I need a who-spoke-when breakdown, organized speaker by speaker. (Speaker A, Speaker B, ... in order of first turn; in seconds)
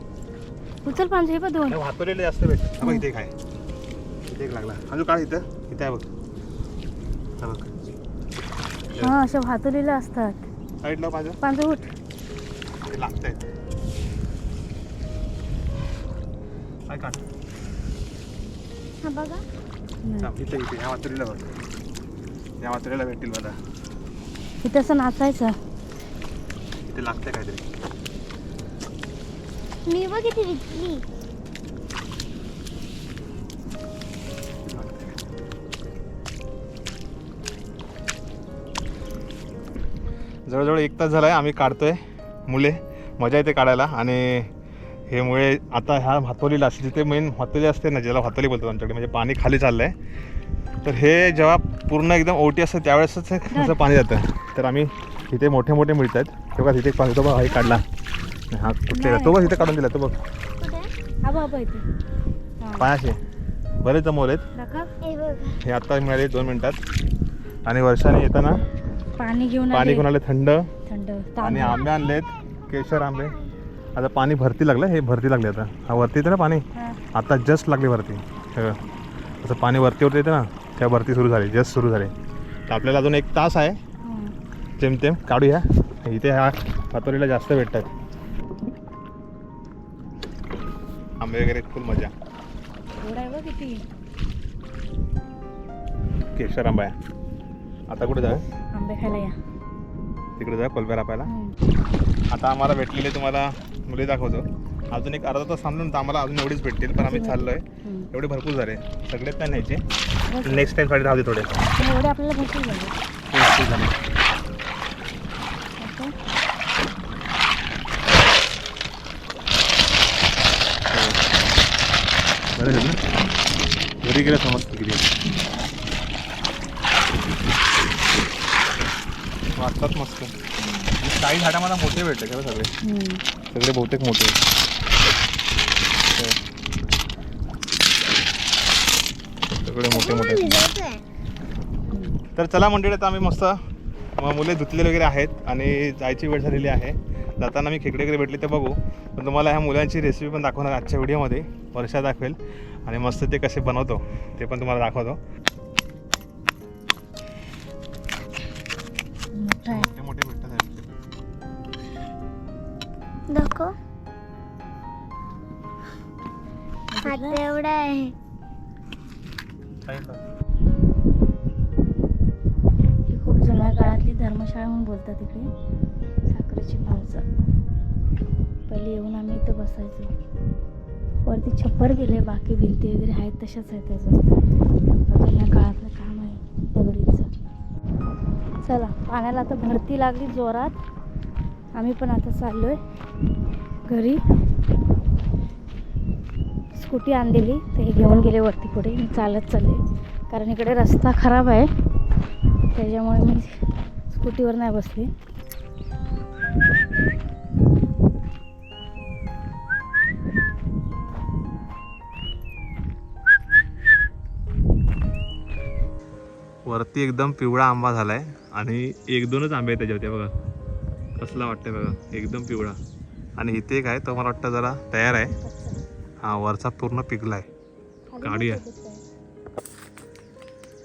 Speaker A: 0.8-1.8, 9.0-10.4, 11.4-11.8, 20.0-20.3, 24.6-25.5, 53.5-53.8, 57.5-57.8, 58.9-59.7, 61.2-61.8, 62.6-62.9, 64.5-64.9, 69.2-70.1, 70.9-71.8, 84.0-84.3, 93.0-93.8, 98.7-99.3, 101.3-101.5, 107.0-108.1, 110.3-110.7, 111.8-112.9, 115.8-116.1, 132.8-133.2, 159.3-159.9, 166.9-167.4, 173.1-175.5, 176.3-177.2, 178.7-180.1, 181.2-184.2, 184.8-187.3, 188.6-190.8, 191.7-192.8, 193.9-194.2, 196.8-201.7, 202.7-203.6, 204.1-205.1, 225.3-225.8, 228.1-229.0
Speaker B: 1.7-3.3, 4.3-6.1, 7.4-7.8, 8.9-9.2, 10.8-11.4, 12.9-13.4, 16.9-17.2, 20.2-21.4, 22.6-23.6, 26.9-27.6, 34.7-35.1, 40.5-44.5, 45.1-49.9, 50.8-57.8, 58.5-60.2, 62.8-63.2, 63.8-64.4, 65.6-66.8, 67.6-68.6, 69.7-70.7, 71.4-73.4, 73.9-78.8, 79.4-82.1, 82.7-83.8, 84.8-87.9, 91.2-92.1, 96.3-96.9, 97.9-98.4, 100.4-101.3, 102.3-109.8, 110.4-111.6, 113.3-113.9, 120.9-121.2, 122.5-123.0, 124.0-125.1, 129.6-130.3, 131.0-132.7, 133.5-134.4, 139.5-140.6, 142.3-143.6, 144.2-155.2, 159.7-160.9, 169.8-170.2, 216.7-220.3, 221.2-222.8, 223.4-225.3, 226.2-227.5, 228.2-228.6
Speaker C: 19.0-19.4, 29.9-31.0, 60.6-60.9, 65.0-65.6, 139.9-141.0, 163.3-163.7, 167.0-168.1